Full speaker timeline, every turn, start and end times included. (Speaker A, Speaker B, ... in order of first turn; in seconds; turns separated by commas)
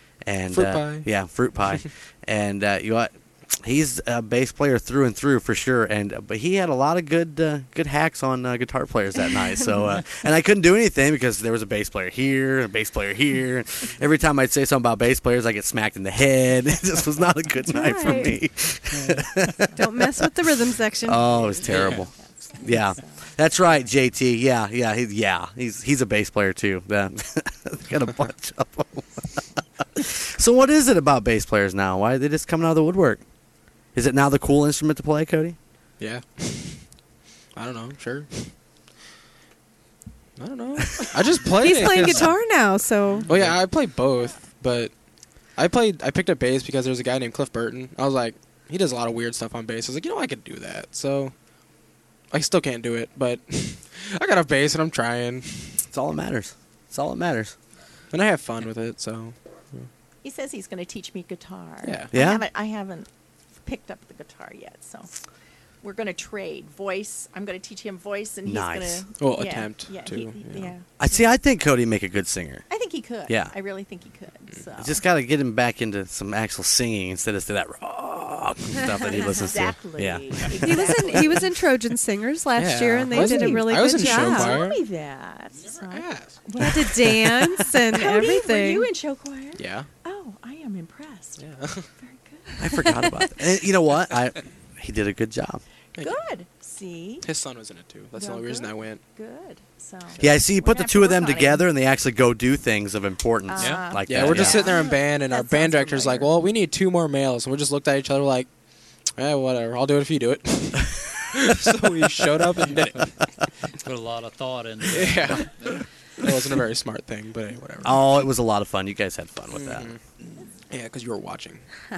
Speaker A: 0.2-20.1, Speaker B: 0.5-1.1, Speaker C: 17.7-18.4, Speaker D: 18.9-19.3, Speaker C: 19.8-21.3, Speaker A: 21.0-29.4, Speaker E: 21.2-23.9, Speaker B: 21.7-22.0, Speaker A: 30.0-33.2, Speaker A: 34.0-35.6, Speaker B: 36.0-36.8, Speaker B: 37.5-38.5, Speaker B: 40.4-42.6, Speaker C: 41.5-43.3, Speaker B: 43.2-44.9, Speaker B: 45.6-51.3, Speaker B: 52.3-55.8, Speaker A: 55.9-57.5, Speaker B: 58.1-59.9, Speaker E: 60.2-63.1, Speaker B: 61.8-62.1, Speaker A: 62.1-62.5, Speaker E: 63.6-65.1, Speaker E: 65.8-71.3, Speaker A: 68.5-69.1, Speaker B: 69.2-70.7, Speaker A: 71.0-72.7, Speaker E: 72.7-75.0, Speaker A: 74.8-81.0, Speaker E: 79.4-81.5, Speaker C: 80.6-84.7, Speaker B: 82.6-84.8, Speaker E: 83.1-91.4, Speaker B: 85.8-86.4, Speaker C: 86.6-88.9, Speaker B: 89.6-89.9, Speaker B: 91.4-91.9, Speaker E: 92.0-92.9, Speaker A: 92.6-95.6, Speaker E: 96.0-97.3, Speaker B: 97.2-99.0, Speaker E: 98.2-101.7, Speaker A: 100.2-104.7, Speaker E: 103.5-106.4, Speaker D: 103.6-103.8, Speaker B: 104.1-108.5, Speaker B: 109.2-113.2, Speaker D: 113.8-115.5, Speaker B: 114.9-115.5, Speaker B: 116.2-118.2, Speaker A: 117.8-119.9, Speaker B: 119.5-120.0, Speaker B: 120.7-121.6